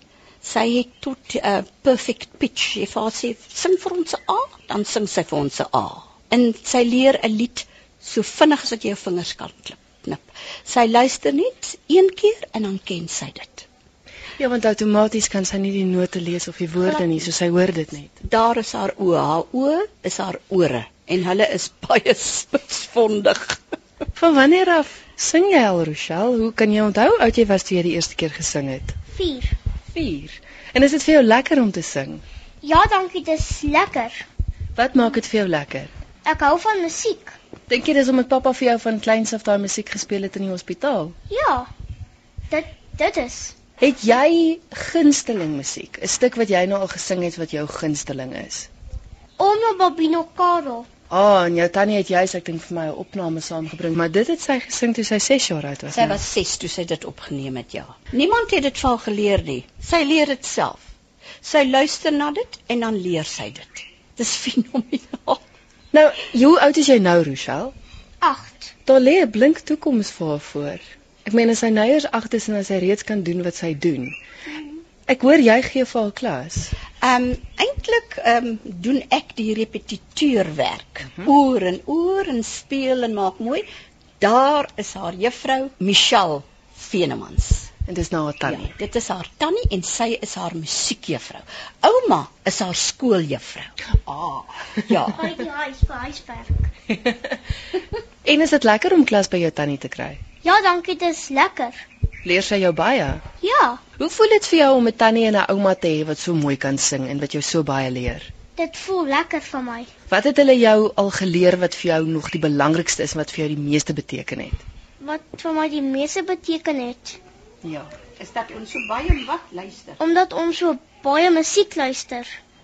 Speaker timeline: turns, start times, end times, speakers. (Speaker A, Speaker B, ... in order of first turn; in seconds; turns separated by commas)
Speaker A: 0.4-13.7, Speaker B: 14.4-18.2, Speaker A: 18.2-23.6, Speaker B: 24.1-28.9, Speaker C: 29.1-29.5, Speaker B: 29.9-32.2, Speaker C: 32.6-34.2, Speaker B: 34.8-35.9, Speaker C: 36.2-37.4, Speaker B: 37.7-41.1, Speaker C: 41.3-41.7, Speaker C: 42.5-43.5, Speaker B: 43.8-48.7, Speaker C: 49.4-50.9, Speaker B: 51.1-56.2, Speaker A: 55.9-60.8, Speaker A: 61.4-65.4, Speaker B: 65.9-67.7, Speaker C: 68.2-68.7, Speaker B: 68.8-74.2, Speaker B: 75.1-76.7, Speaker A: 77.0-83.6, Speaker A: 84.2-87.7, Speaker B: 87.8-88.7, Speaker A: 88.4-95.2, Speaker C: 95.1-96.7, Speaker B: 98.2-100.2, Speaker C: 100.4-101.8, Speaker B: 102.2-103.2, Speaker C: 103.4-103.8, Speaker B: 104.0-108.3, Speaker C: 108.5-109.9, Speaker B: 110.1-114.6, Speaker C: 115.0-117.2, Speaker B: 117.6-117.9, Speaker A: 118.2-120.0, Speaker C: 120.0-122.4